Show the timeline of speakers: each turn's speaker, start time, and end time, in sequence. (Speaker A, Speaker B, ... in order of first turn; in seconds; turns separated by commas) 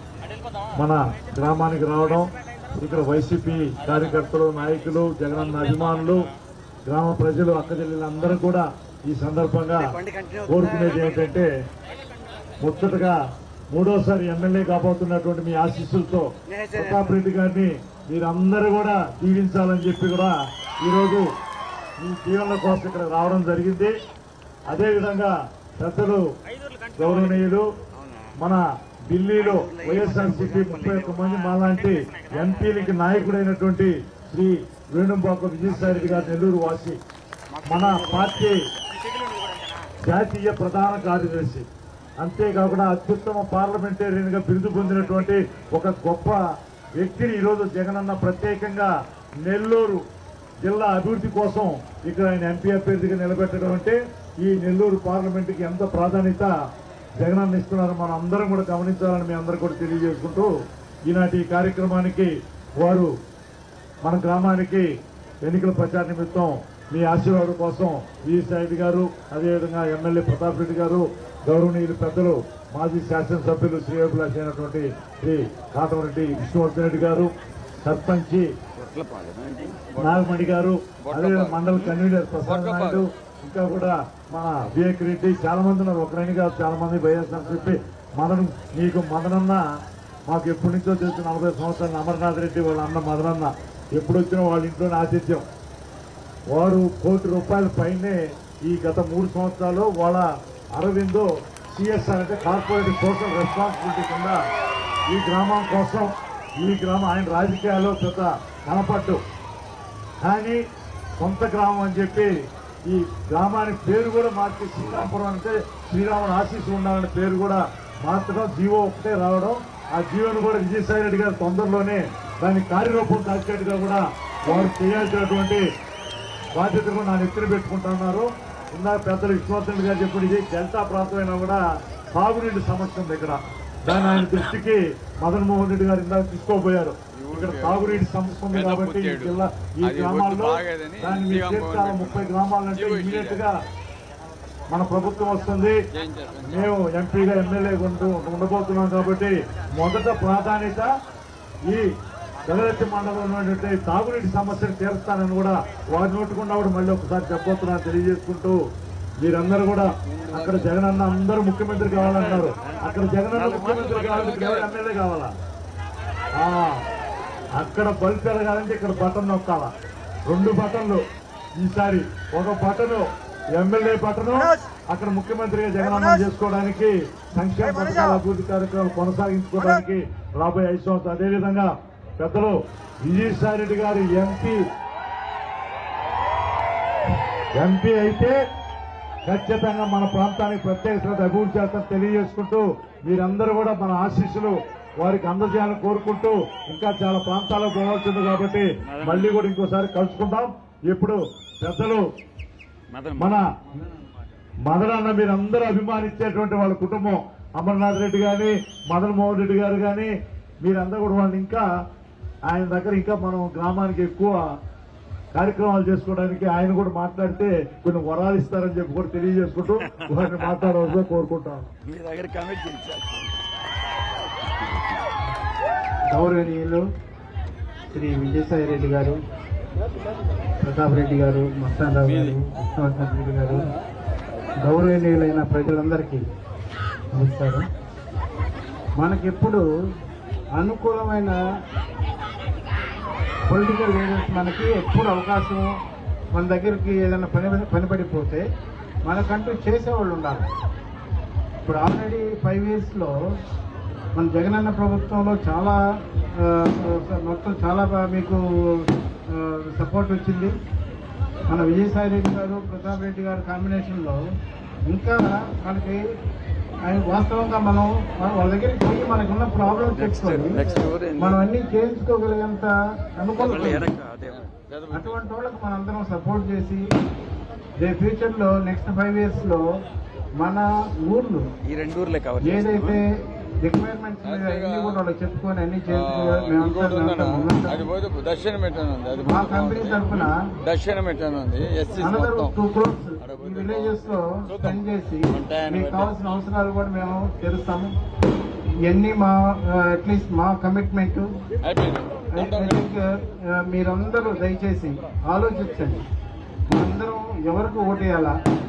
Speaker A: 0.7-6.3, Speaker A: 6.9-11.5, Speaker A: 12.6-13.2, Speaker A: 13.7-21.3, Speaker A: 22.0-23.9, Speaker A: 24.7-26.2, Speaker A: 26.9-27.7, Speaker A: 28.4-37.0, Speaker A: 37.6-38.7, Speaker A: 40.0-41.7, Speaker A: 42.2-46.4, Speaker A: 47.0-48.9, Speaker A: 49.4-50.0, Speaker A: 50.6-56.5, Speaker A: 57.2-60.5, Speaker A: 61.0-63.1, Speaker A: 64.0-64.9, Speaker A: 65.4-77.3, Speaker A: 77.8-78.5, Speaker B: 78.8-80.3, Speaker A: 80.0-89.6, Speaker B: 81.0-83.0, Speaker A: 90.3-95.5, Speaker A: 96.5-104.4, Speaker A: 105.1-109.2, Speaker A: 110.2-110.6, Speaker A: 111.2-112.3, Speaker A: 112.8-125.7, Speaker A: 126.5-131.6, Speaker A: 132.2-143.6, Speaker B: 137.2-143.4, Speaker A: 144.7-145.8, Speaker B: 145.9-146.7, Speaker A: 146.4-150.9, Speaker A: 152.5-158.6, Speaker A: 159.2-165.3, Speaker B: 160.2-160.6, Speaker B: 163.5-164.6, Speaker A: 166.4-166.8, Speaker A: 167.6-169.7, Speaker A: 170.3-171.0, Speaker A: 171.6-184.6, Speaker A: 187.6-188.4, Speaker A: 189.2-202.1, Speaker A: 203.1-203.5, Speaker A: 204.6-211.7, Speaker A: 212.5-214.5, Speaker A: 215.3-221.7, Speaker B: 221.9-223.2, Speaker C: 226.1-226.8, Speaker C: 227.9-229.2, Speaker C: 230.6-233.7, Speaker C: 234.6-236.2, Speaker C: 237.1-237.7, Speaker C: 239.0-239.7, Speaker C: 240.6-241.4, Speaker C: 243.5-245.8, Speaker C: 246.3-248.4, Speaker C: 249.1-250.5, Speaker C: 251.6-253.2, Speaker C: 254.2-255.8, Speaker C: 256.4-260.6, Speaker C: 261.5-264.2, Speaker C: 264.9-266.1, Speaker C: 266.9-270.6, Speaker B: 270.0-271.4, Speaker C: 271.2-273.9, Speaker B: 273.9-275.1, Speaker C: 274.9-276.9, Speaker C: 277.8-279.6, Speaker C: 280.4-281.5, Speaker B: 281.7-283.0, Speaker C: 282.4-283.1, Speaker C: 283.6-287.8, Speaker B: 284.3-285.0, Speaker B: 285.9-292.5, Speaker C: 289.2-290.4, Speaker C: 292.0-298.0, Speaker B: 293.3-293.9, Speaker B: 295.4-296.1, Speaker C: 298.8-301.3, Speaker B: 301.6-302.6, Speaker C: 302.3-306.1, Speaker C: 306.7-308.4